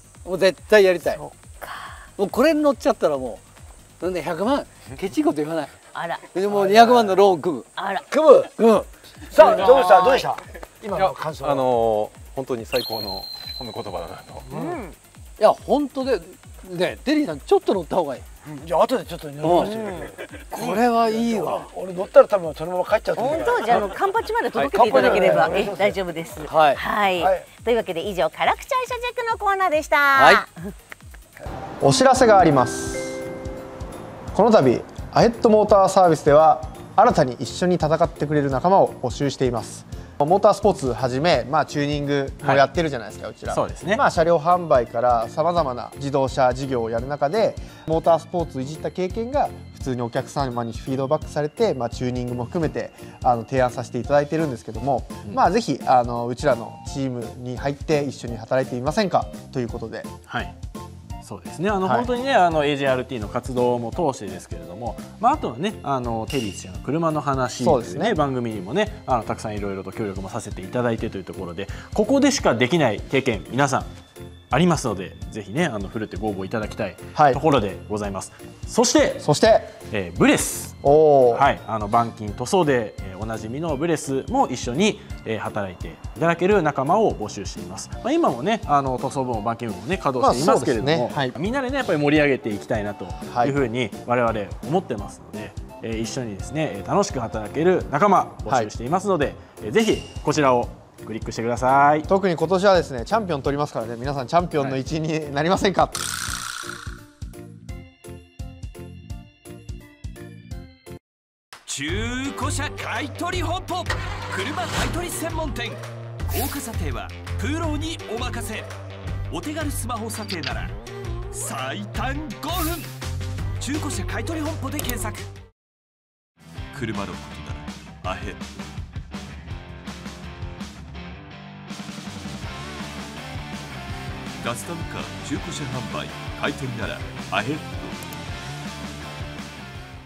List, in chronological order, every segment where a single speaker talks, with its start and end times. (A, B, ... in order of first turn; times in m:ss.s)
0:00.2-0:01.2 A
0:01.0-0:02.1 B
0:02.2-0:03.4 A
0:04.0-0:05.8 A
0:05.9-0:06.3 B
0:06.3-0:07.7 A
0:06.5-0:07.2 C
0:07.8-0:08.1 B
0:08.1-0:08.5 C
0:08.6-0:09.5 A
0:09.3-0:11.7 C
0:09.8-0:10.3 B
0:11.0-0:14.5 D
0:14.5-0:15.0 B
0:15.4-0:18.2 A
0:18.6-0:23.9 C
0:19.4-0:19.7 A
0:19.6-0:20.1 B
0:20.5-0:21.7 A
0:23.2-0:30.7 B
0:24.5-0:25.3 D
0:24.7-0:26.5 C
0:26.5-0:26.8 A
0:27.2-0:27.5 C
0:30.1-0:30.4 A
0:31.8-0:33.2 E
0:34.3-1:00.1 E
0:43.5-0:44.0 F
1:00.3-1:00.5 F
1:01.2-1:13.9 F
1:01.8-1:02.1 E
1:07.6-1:08.2 E
1:14.5-1:19.2 F
1:17.1-1:17.4 E
1:19.2-1:19.8 E
1:19.9-1:20.8 F
1:20.8-1:21.5 E
1:21.3-1:42.1 F
1:30.2-1:31.4 E
1:33.2-1:33.6 E
1:38.5-1:38.7 E
1:42.1-1:46.0 E
1:51.7-1:58.7 G
1:59.3-2:00.8 G
2:01.3-2:03.0 G
2:03.6-2:05.3 G
2:06.7-2:08.7 G
2:14.3-2:18.2 G